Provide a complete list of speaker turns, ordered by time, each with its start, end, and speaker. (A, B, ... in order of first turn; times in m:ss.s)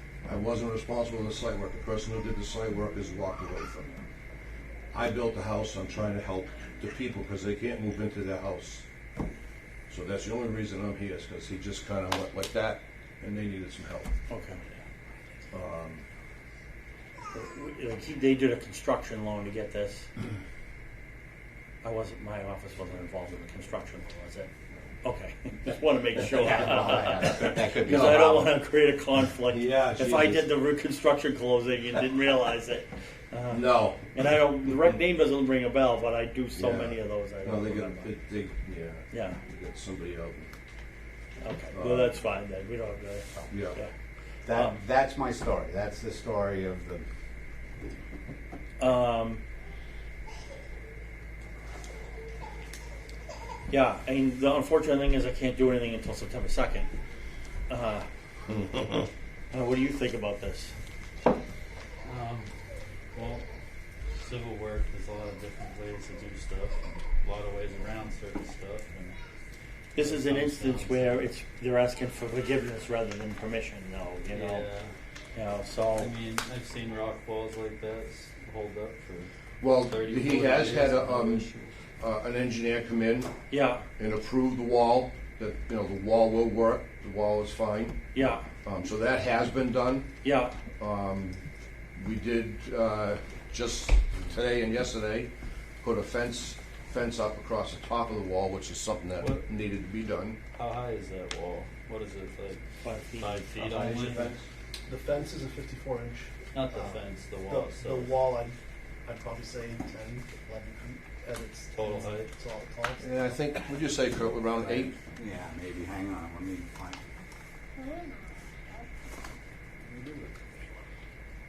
0:00.2-0:04.0 A
0:04.9-0:08.8 A
0:09.9-0:14.1 A
0:14.3-0:14.6 B
0:15.5-0:16.0 A
0:17.3-0:20.1 B
0:21.8-0:24.5 B
0:25.0-0:38.1 B
0:26.2-0:28.5 C
0:29.5-0:30.5 A
0:33.5-0:34.0 A
0:36.6-0:40.5 A
0:39.1-0:39.4 B
0:41.4-0:43.9 B
0:41.7-0:42.1 A
0:43.5-0:43.8 A
0:44.4-0:47.0 C
0:48.8-0:49.4 B
0:53.7-0:56.9 B
0:57.7-0:58.0 B
0:59.5-1:00.7 B
1:02.0-1:02.5 D
1:03.1-1:03.4 D
1:04.1-1:09.2 D
1:09.9-1:14.7 B
1:10.0-1:11.3 D
1:14.3-1:14.9 D
1:15.3-1:16.1 B
1:15.9-1:19.3 D
1:19.6-1:21.4 A
1:19.8-1:21.8 D
1:22.0-1:23.3 A
1:23.5-1:23.8 B
1:24.0-1:28.0 A
1:28.1-1:28.4 B
1:28.6-1:30.1 A
1:30.2-1:30.6 B
1:30.8-1:31.4 A
1:32.0-1:35.3 A
1:35.8-1:40.4 A
1:39.2-1:39.4 D
1:40.5-1:44.4 D
1:42.8-1:44.3 B
1:44.8-1:53.1 E
1:46.5-1:48.2 D
1:51.7-1:52.3 D
1:53.0-1:54.9 A
1:54.8-1:57.0 C
1:59.8-2:00.3 C